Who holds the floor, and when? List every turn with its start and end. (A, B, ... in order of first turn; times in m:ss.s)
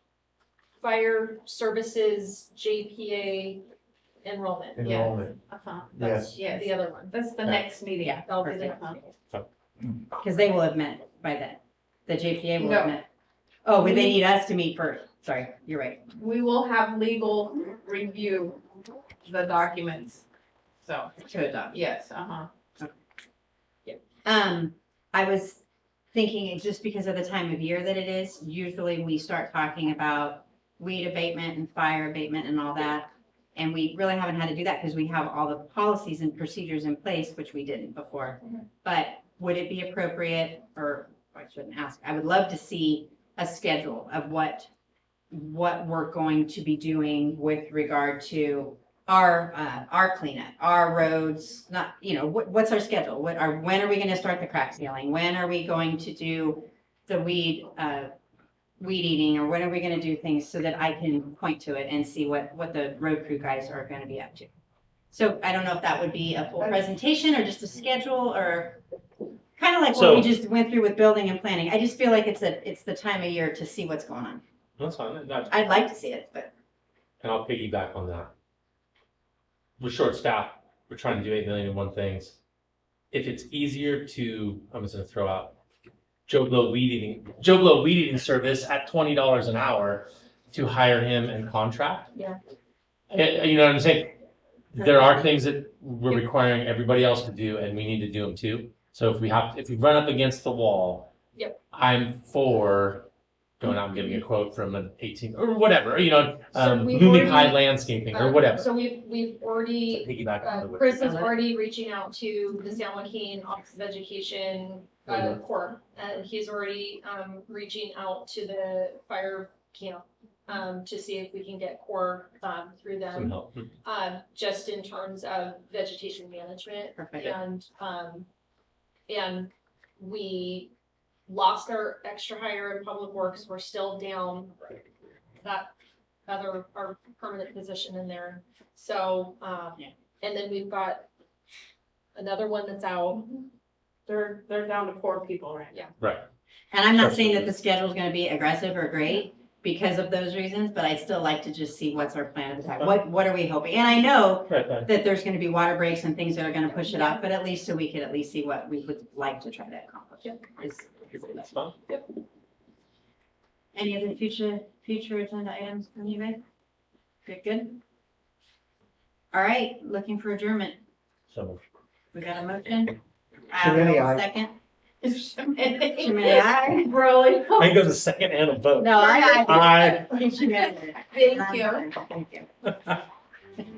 0:00.8-0:03.6 A
0:04.2-0:05.0 A
0:04.8-0:09.0 B
0:04.8-0:05.2 C
0:06.0-0:07.2 A
0:08.1-0:09.0 A
0:10.1-0:13.1 D
0:12.6-0:12.9 B
0:13.6-0:16.0 D
0:13.8-0:14.2 B
0:16.2-0:18.6 B
0:19.2-0:20.2 B
0:20.8-0:21.1 B
0:21.2-0:21.8 D
0:21.7-0:22.5 B
0:24.2-0:44.7 D
0:45.3-0:58.1 D
0:58.8-1:04.5 D
1:05.1-1:08.8 D
1:09.6-1:14.4 D
1:09.9-1:10.3 C
1:14.8-1:15.8 C
1:15.5-1:16.5 D
1:17.2-1:18.3 C
1:19.8-1:22.4 C
1:23.1-1:25.6 C
1:26.3-1:32.1 C
1:33.1-1:34.1 C
1:34.7-1:41.1 C
1:41.7-1:43.1 C
1:43.6-1:48.7 C
1:46.5-2:08.3 A
1:49.9-1:51.3 C
1:55.1-1:55.4 C
2:03.1-2:03.7 C
2:07.0-2:07.4 D
2:09.1-2:10.7 A
2:11.3-2:14.8 A
2:15.4-2:15.7 A
2:16.3-2:21.1 A
2:22.1-2:23.4 A
2:24.1-2:25.7 B
2:26.0-2:26.2 C
2:26.7-2:41.5 D
2:26.9-2:27.5 C
2:34.5-2:34.9 C
2:41.1-2:41.8 C
2:43.7-2:46.4 D
2:47.2-2:47.8 D
2:49.3-2:50.8 D
2:51.3-2:51.6 C
2:52.1-2:53.0 D
2:53.5-2:54.5 D
2:55.0-2:57.8 B
2:55.8-2:56.9 D
2:57.6-3:00.1 C
2:58.8-3:02.7 D
3:00.6-3:01.8 B